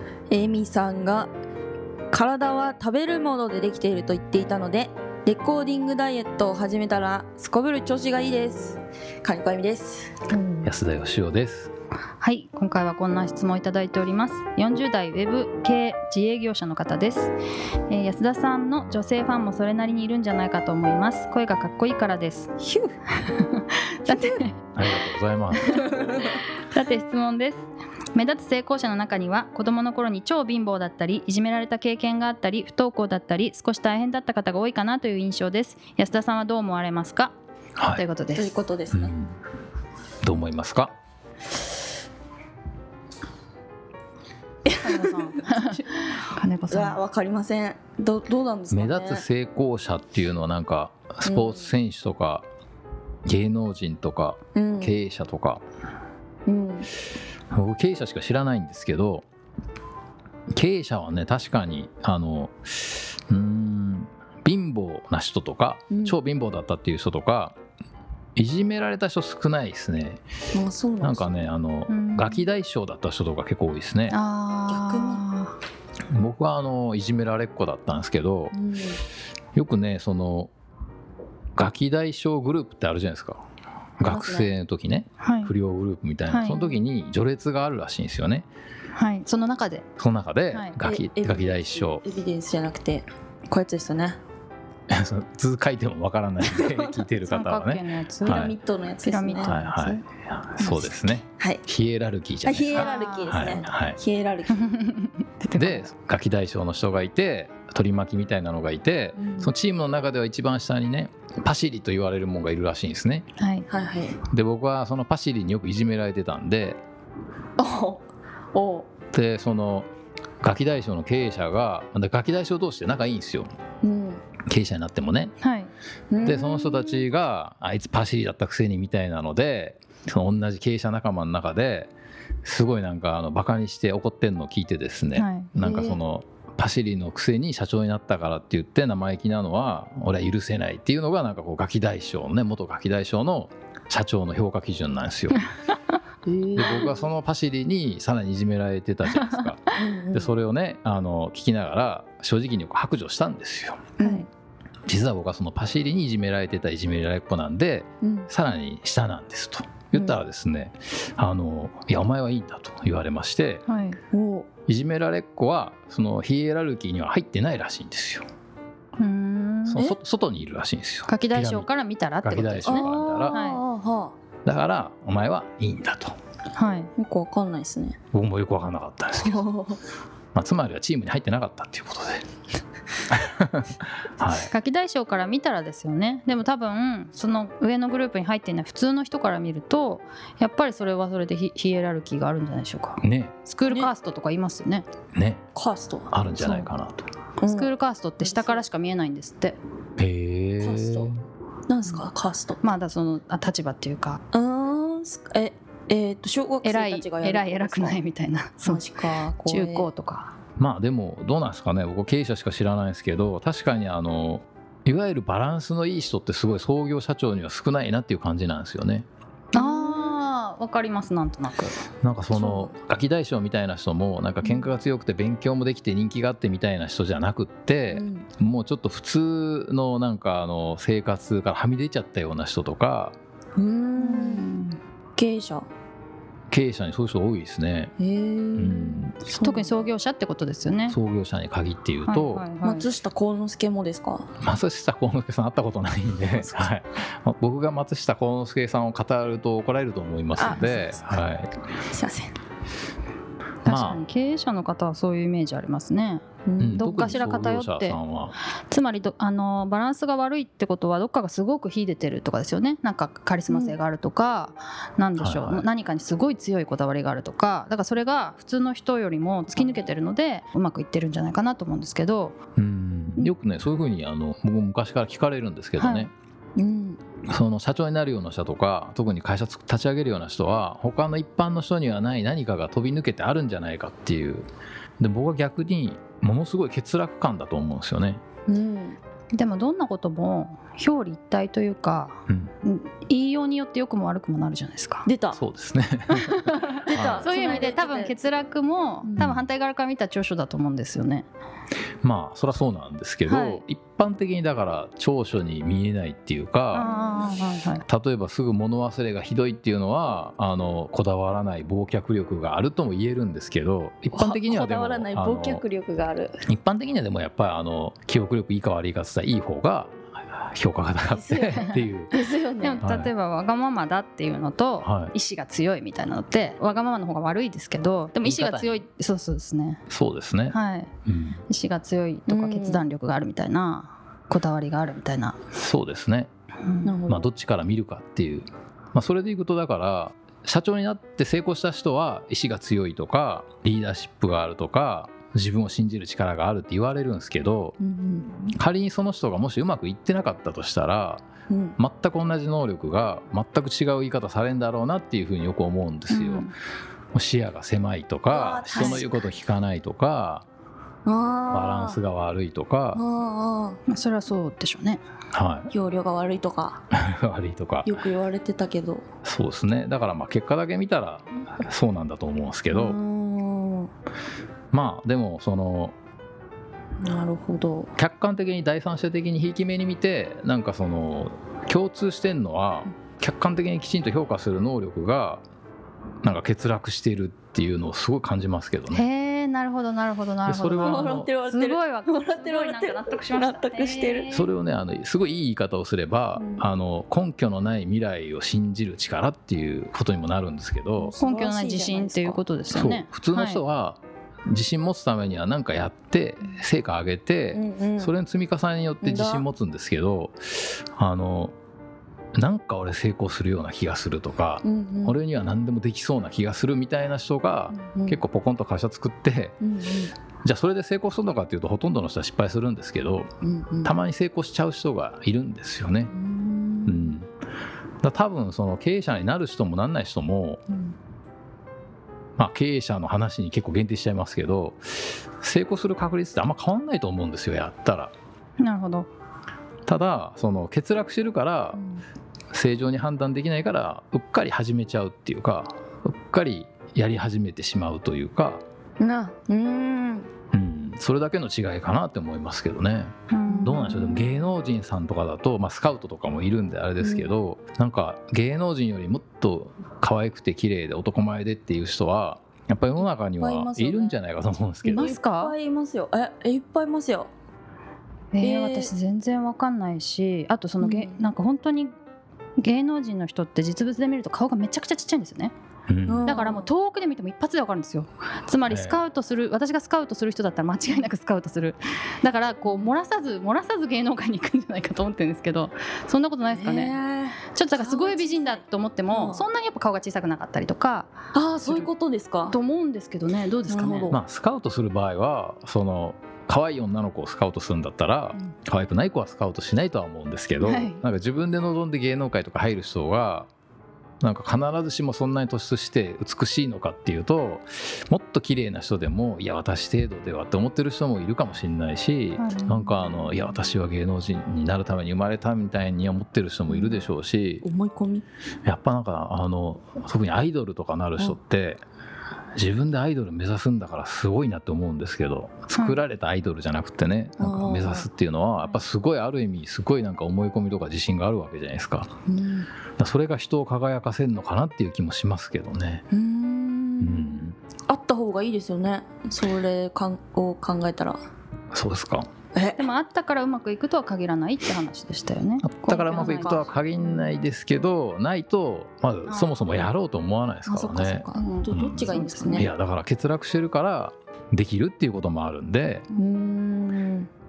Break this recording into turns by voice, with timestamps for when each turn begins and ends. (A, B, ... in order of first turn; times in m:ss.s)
0:00.3-0:01.3 A
0:02.1-0:10.7 A
0:10.6-0:11.7 B
0:12.2-0:17.3 C
0:17.9-0:22.6 C
0:23.2-0:24.5 C
0:24.1-0:24.4 A
0:24.7-0:26.0 B
0:25.6-0:37.3 C
0:37.8-0:38.0 B
0:37.9-0:38.5 C
0:38.3-0:39.1 A
0:38.9-0:39.3 B
0:40.2-0:40.9 B
0:44.7-0:45.8 A
0:44.8-0:47.0 C
0:46.7-0:49.2 A
0:48.7-0:52.4 B
0:51.2-0:51.7 A
0:53.2-0:55.6 B
0:54.5-0:55.0 A
0:56.4-0:56.9 A
0:57.5-0:59.2 B
1:00.5-1:07.6 B
1:05.9-1:06.2 A
1:08.4-1:10.2 B
1:10.5-1:11.5 A
1:11.0-1:14.2 B
1:11.9-1:12.4 C
1:14.1-1:15.6 C
1:14.7-1:15.2 A
1:16.1-1:18.6 B
1:18.5-1:19.0 A
1:19.5-1:20.5 B
1:21.6-1:23.4 B
1:24.0-1:28.5 B
1:24.0-1:24.5 A
1:25.2-1:25.5 C
1:26.3-1:26.7 C
1:28.9-1:29.8 C
1:30.0-1:32.0 B
1:30.5-1:30.7 C
1:30.8-1:34.2 A
1:34.9-1:38.5 B
1:36.4-1:37.0 A
1:37.2-1:40.0 C
1:38.2-1:39.6 A
1:39.4-1:44.0 B
1:40.6-1:41.6 A
1:42.4-1:44.6 A
1:42.7-1:43.4 C
1:44.5-1:45.9 C
1:45.5-1:53.3 B
1:49.2-1:49.5 A
1:53.4-1:53.6 C
1:53.7-1:54.2 A
1:54.2-1:56.8 B
1:57.6-1:58.9 A
1:59.1-1:59.9 B
2:00.4-2:03.5 B
2:03.8-2:04.2 A
2:04.4-2:05.3 B
2:05.4-2:05.7 C
2:06.1-2:06.9 A
2:06.2-2:11.9 B
2:12.4-2:25.4 B
2:15.1-2:15.5 C
2:15.5-2:16.0 A
2:26.2-2:27.1 A
2:26.5-2:33.9 B
2:29.2-2:29.5 C
2:29.8-2:30.3 A
2:34.0-2:34.3 A
2:34.0-2:34.2 C
2:34.9-2:43.6 B
2:38.0-2:38.3 A
2:43.7-2:44.0 C
2:44.1-2:44.5 A
2:44.7-2:48.2 B
2:49.0-2:49.9 C
2:49.7-2:51.7 B
2:51.1-2:53.6 C
2:52.2-2:53.4 B
2:52.7-2:54.1 A
2:54.4-2:56.1 B
2:56.5-2:56.9 C
2:57.0-2:58.0 A
2:58.1-2:59.4 B
2:59.2-2:59.8 A
3:00.3-3:02.2 B
3:03.1-3:04.5 B
3:04.3-3:14.8 C
3:13.0-3:13.3 B
3:15.1-3:15.4 B
3:15.5-3:16.1 A
3:16.1-3:17.1 B
3:16.4-3:16.7 C
3:17.4-3:18.6 A
3:17.4-3:19.6 C
3:20.0-3:21.2 B
3:20.6-3:21.1 A
3:21.7-3:22.6 A
3:22.6-3:24.2 C
3:24.3-3:28.0 A
3:26.6-3:28.8 C
3:28.6-3:29.9 A
3:29.4-3:30.3 C
3:30.6-3:39.0 B
3:39.5-3:41.7 C
3:39.5-3:40.2 A
3:42.0-3:53.2 B
3:42.3-3:42.7 A
3:44.4-3:44.7 A
3:47.9-3:48.3 A
3:53.6-3:54.5 A
3:54.0-3:54.8 C
3:55.2-3:55.7 A
3:56.5-3:57.9 B
3:58.0-3:59.8 A
3:58.6-3:59.2 B
3:59.4-4:01.0 C
4:00.9-4:02.4 B
4:02.0-4:02.9 C
4:02.6-4:04.3 A
4:04.4-4:11.6 B
4:06.4-4:06.7 A
4:10.4-4:11.1 A
4:11.9-4:12.4 A
4:13.6-4:18.0 C
4:13.6-4:14.0 B
4:16.4-4:17.0 A
4:16.6-4:18.4 B
4:18.7-4:32.4 C
4:23.5-4:23.8 A
4:25.2-4:25.6 B
4:29.5-4:29.8 A
4:32.6-4:36.1 B
4:35.8-4:36.1 C
4:36.6-4:37.0 A
4:37.2-4:44.5 B
4:45.0-4:48.2 B
4:48.5-4:49.0 A
4:49.3-4:55.1 C
4:55.0-4:55.4 A
4:55.3-4:57.6 B
4:56.1-5:01.3 C
4:56.7-4:58.1 A
4:59.2-4:59.4 B
5:02.0-5:06.9 B
5:03.2-5:03.6 C
5:06.7-5:07.8 C
5:06.8-5:07.3 A
5:07.9-5:15.6 B
5:14.1-5:16.4 A
5:16.4-5:22.1 B
5:21.1-5:22.8 A
5:21.5-5:21.8 C
5:22.6-5:29.8 C
5:22.8-5:23.1 B
5:24.8-5:25.1 B
5:28.2-5:28.8 B
5:29.9-5:31.4 B
5:30.5-5:30.9 C
5:31.5-5:35.4 C
5:32.3-5:32.8 A
5:35.6-5:36.3 B
5:36.6-5:36.9 C
5:36.8-5:37.3 A
5:37.1-5:47.7 B
5:47.8-5:48.3 A
5:48.3-5:51.2 B
5:51.5-5:51.8 A
5:51.8-5:56.5 B
5:56.1-5:56.5 C
5:57.1-6:00.4 B
5:58.3-5:59.1 A
5:58.7-5:59.0 C
6:01.0-6:02.0 A
6:01.5-6:03.0 B
6:02.9-6:03.8 A
6:03.9-6:05.0 C
6:05.3-6:05.7 B
6:05.7-6:06.8 A
6:06.9-6:07.9 B
6:07.8-6:09.0 A
6:09.2-6:13.0 B
6:12.7-6:13.9 A
6:14.7-6:15.9 B
6:17.0-6:17.9 A
6:18.0-6:25.4 B
6:26.2-6:29.0 B
6:28.9-6:34.5 C
6:30.4-6:31.3 B
6:30.8-6:34.3 A
6:34.3-6:41.1 B
6:36.4-6:36.6 A
6:41.0-6:42.4 A
6:41.2-6:43.6 C
6:42.7-6:51.5 B
6:47.5-6:48.1 A
6:49.0-6:49.5 A
6:52.4-6:59.6 B
6:54.6-6:55.2 A
6:57.7-6:58.2 A
6:59.6-7:00.1 A
7:00.4-7:03.3 B
7:03.4-7:03.9 A
7:03.8-7:06.1 B
7:06.1-7:07.1 A
7:06.8-7:07.3 B
7:08.0-7:10.6 B
7:12.4-7:18.1 B
7:18.6-7:19.1 C
7:19.8-7:21.8 B
7:22.5-7:28.6 B
7:29.0-7:30.3 A
7:30.5-7:45.1 B
7:33.3-7:34.2 C
7:33.6-7:33.9 A
7:37.0-7:37.3 A
7:43.2-7:44.2 A
7:44.8-7:45.5 C
7:44.9-7:47.3 A
7:48.3-7:51.9 C
7:48.4-7:48.9 A
7:50.8-7:51.2 A
7:52.6-7:55.5 C
7:55.9-7:56.3 B
7:56.1-7:56.7 A
7:56.2-8:06.9 C
7:58.7-7:59.0 B
8:06.4-8:09.4 A
8:07.5-8:11.9 C
8:11.3-8:12.6 A
8:12.5-8:14.1 C
8:13.7-8:14.2 A
8:14.1-8:23.5 B
8:20.6-8:21.0 C
8:24.2-8:37.6 B
8:32.4-8:33.0 C
8:36.7-8:37.0 A
8:37.6-8:38.2 A
8:38.6-8:41.8 B
8:42.5-8:52.1 B
8:47.4-8:48.1 A
8:52.3-8:52.7 A
8:53.0-8:56.0 B
8:56.1-9:01.2 A
8:57.0-8:57.6 B
9:01.7-9:02.3 B
9:02.5-9:02.8 A
9:02.8-9:06.7 C
9:05.6-9:16.0 B
9:06.1-9:06.7 A
9:09.2-9:09.7 C
9:10.7-9:12.7 A
9:11.4-9:12.7 C
9:16.1-9:17.3 A